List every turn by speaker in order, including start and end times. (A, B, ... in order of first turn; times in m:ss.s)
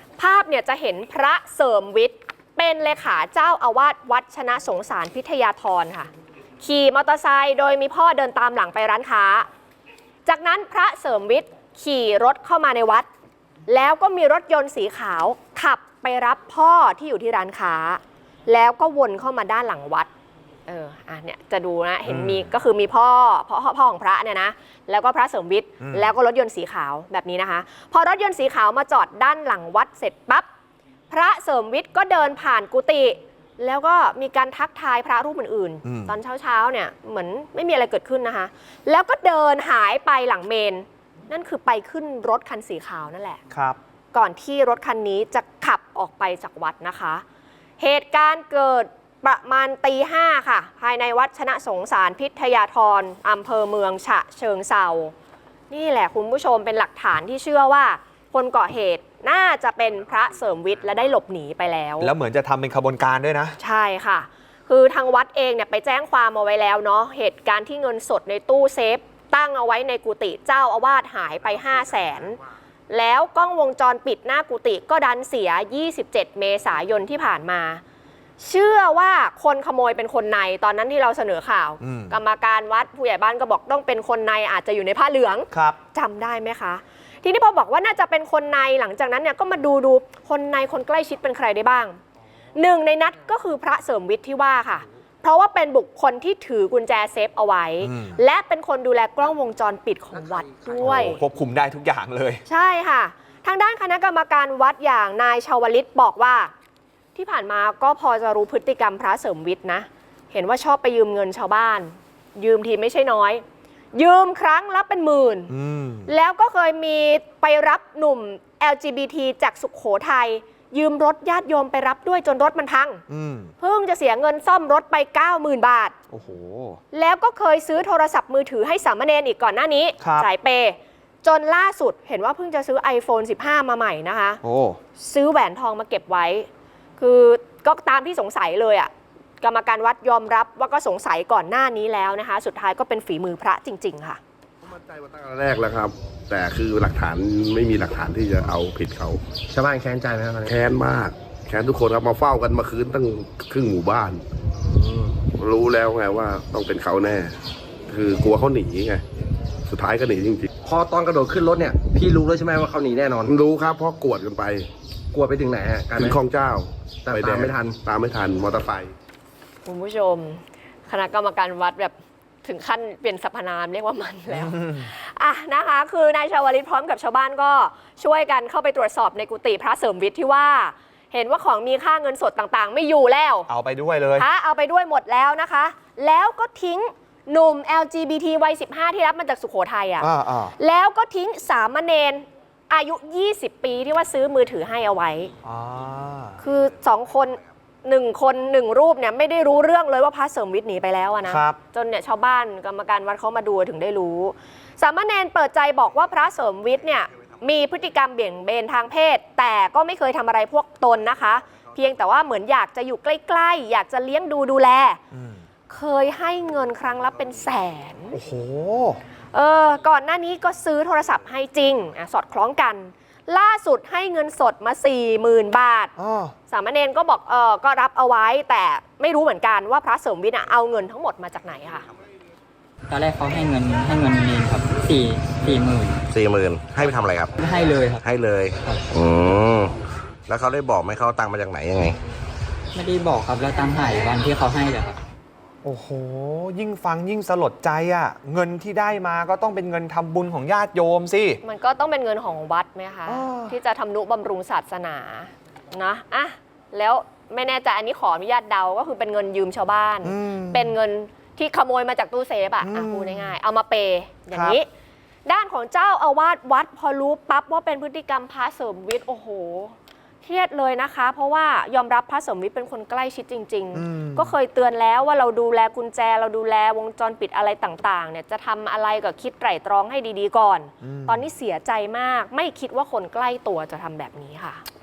0:00.2-0:09.5 A
0:10.2-0:13.1 A
0:13.7-0:20.1 A
0:20.7-0:30.5 A
0:22.1-0:22.5 B
0:25.8-0:26.1 B
0:31.1-0:43.4 A
0:35.8-0:36.2 B
0:43.5-0:43.8 B
0:44.1-0:47.2 A
0:47.8-0:55.1 A
0:55.7-1:02.1 A
1:02.0-1:03.6 B
1:03.6-1:17.8 A
1:18.4-1:32.0 A
1:21.8-1:22.2 B
1:25.5-1:25.8 B
1:32.5-1:41.2 A
1:37.8-1:38.2 B
1:40.8-1:42.4 B
1:42.4-1:46.5 A
1:47.1-1:53.4 A
1:53.9-1:55.5 A
1:55.5-1:56.1 B
1:56.1-2:03.0 A
2:03.1-2:03.5 B
2:03.6-2:06.0 A
2:06.1-2:06.8 B
2:06.9-2:14.4 A
2:10.0-2:10.3 B
2:14.4-2:14.8 B
2:14.9-2:24.2 A
2:24.6-2:29.2 C
2:29.5-2:30.6 D
2:30.5-2:34.2 C
2:34.6-2:35.2 D
2:35.3-2:37.4 C
2:37.9-2:39.0 C
2:39.7-2:40.5 C
2:40.6-2:43.3 D
2:43.2-2:44.7 C
2:45.1-2:46.2 D
2:46.0-2:48.9 C
2:47.0-2:47.8 D
2:49.6-3:03.5 A
2:54.3-2:54.8 B
3:03.5-3:04.3 B
3:04.2-3:15.3 A
3:10.0-3:10.5 B
3:15.4-3:16.4 B
3:16.4-3:35.0 A
3:21.3-3:21.6 B
3:35.1-3:35.4 B
3:35.7-3:38.2 A
3:38.1-3:39.0 B
3:39.3-3:45.9 A
3:46.0-3:46.3 B
3:46.5-3:51.9 A
3:52.9-3:56.0 E
3:56.1-3:57.3 F
3:57.4-3:58.0 E
3:58.0-3:59.7 F
4:00.3-4:02.0 F
4:02.7-4:05.0 E
4:05.6-4:11.4 B
4:11.4-4:24.7 A
4:13.0-4:13.5 B
4:20.0-4:20.7 B
4:22.6-4:23.3 B
4:25.2-4:44.6 A
4:33.7-4:34.3 B
4:40.8-4:41.3 B